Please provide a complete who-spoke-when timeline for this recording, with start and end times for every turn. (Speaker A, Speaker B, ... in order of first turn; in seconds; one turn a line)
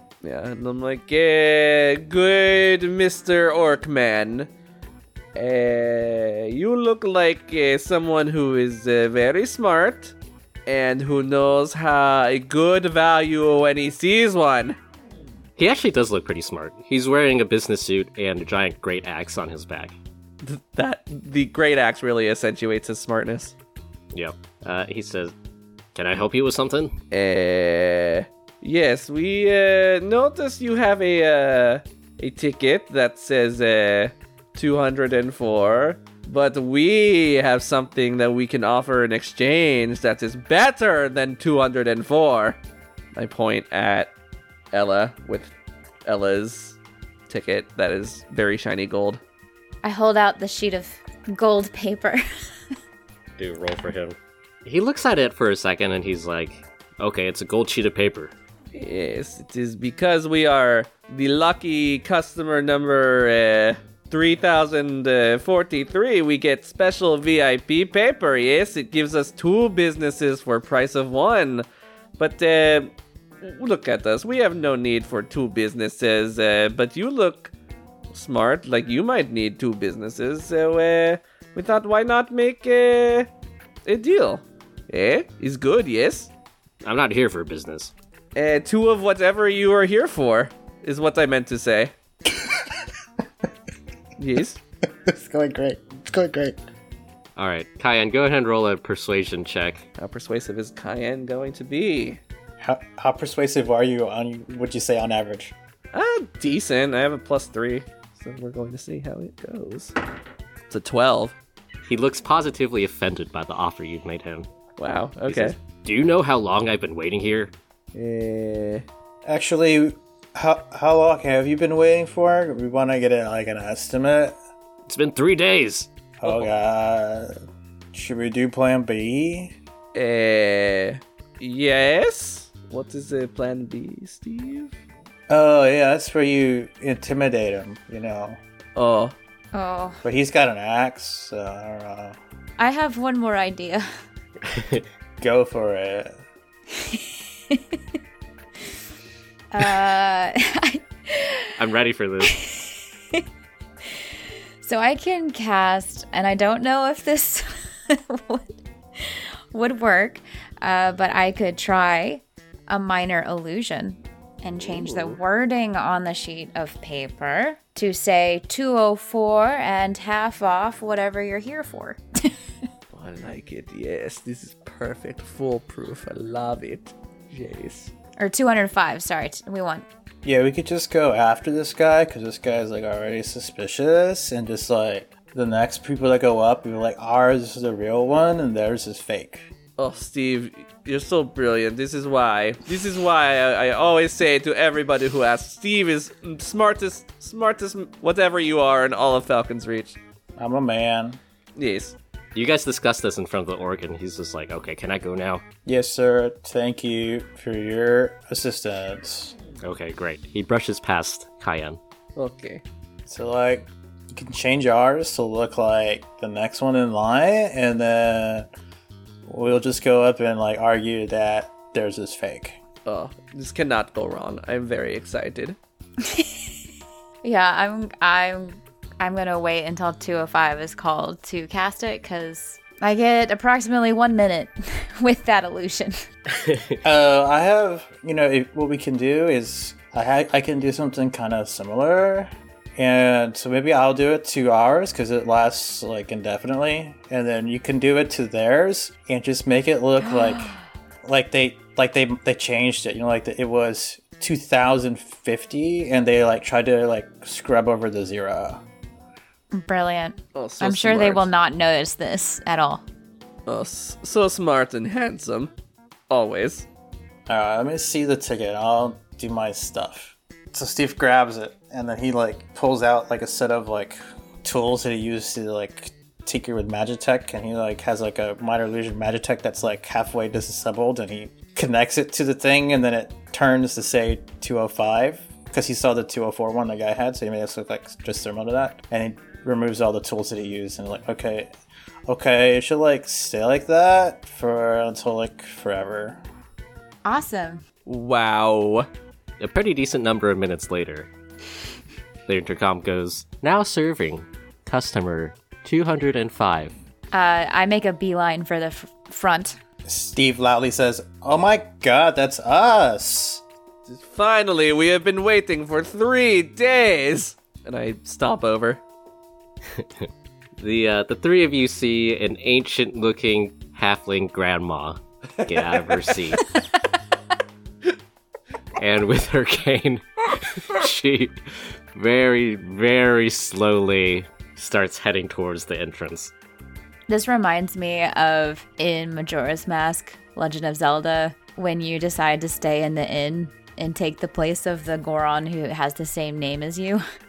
Speaker A: 0.2-4.5
Speaker A: 5.3-10.1
Speaker A: 10.7-14.8
Speaker B: 15.6-19.9
Speaker A: 20.4-23.5
Speaker B: 24.1-25.3
Speaker B: 25.9-26.9
Speaker A: 27.1-42.6
Speaker A: 43.1-44.1
Speaker A: 44.7-45.5
Speaker A: 46.0-46.8
Speaker A: 47.3-49.2
Speaker C: 49.8-52.2
Speaker B: 53.4-58.3
Speaker A: 58.7-71.6
Speaker A: 72.2-77.5
Speaker A: 78.1-83.3
Speaker A: 83.8-86.3
Speaker B: 86.8-87.9
Speaker A: 88.3-91.9
Speaker A: 94.2-94.6
Speaker D: 95.0-96.6
Speaker B: 97.3-99.8
Speaker A: 100.0-102.2
Speaker D: 102.6-105.5
Speaker A: 105.9-109.9
Speaker A: 110.7-111.3
Speaker B: 111.8-114.5
Speaker A: 114.8-115.5
Speaker B: 115.3-117.5
Speaker A: 117.9-118.8
Speaker D: 119.2-124.3
Speaker B: 124.9-125.9
Speaker D: 126.2-127.3
Speaker D: 127.9-129.5
Speaker A: 129.9-134.7
Speaker D: 135.3-138.4
Speaker A: 138.8-139.1
Speaker C: 139.5-140.0
Speaker D: 140.0-142.2
Speaker C: 142.6-143.8
Speaker B: 144.5-144.8
Speaker D: 145.2-146.2
Speaker C: 146.7-147.8
Speaker C: 149.5-151.5
Speaker B: 151.6-152.3
Speaker C: 152.2-153.2
Speaker C: 154.6-172.3
Speaker A: 164.6-165.2
Speaker A: 172.9-177.9
Speaker C: 178.2-179.8
Speaker D: 180.2-189.4
Speaker A: 189.8-200.0
Speaker D: 200.4-201.2
Speaker A: 201.6-201.9
Speaker B: 202.3-205.4
Speaker D: 205.7-209.3
Speaker B: 209.6-211.8
Speaker A: 212.2-212.6
Speaker D: 213.1-218.5
Speaker D: 219.2-222.6
Speaker A: 222.8-225.6
Speaker C: 226.0-226.3
Speaker C: 227.2-236.0
Speaker B: 236.3-236.7
Speaker D: 236.8-250.5
Speaker C: 250.1-250.6
Speaker D: 251.0-258.6
Speaker C: 259.5-262.8
Speaker A: 260.3-261.3
Speaker A: 263.5-265.5
Speaker A: 266.1-266.6
Speaker D: 267.3-291.5
Speaker D: 292.1-296.2
Speaker C: 297.0-297.6
Speaker A: 297.9-298.9
Speaker B: 299.4-301.1
Speaker B: 302.3-306.7
Speaker C: 307.1-309.6
Speaker D: 309.8-313.4
Speaker A: 313.9-318.8
Speaker B: 319.7-326.4
Speaker A: 325.4-326.1
Speaker B: 328.8-336.3
Speaker C: 337.1-347.0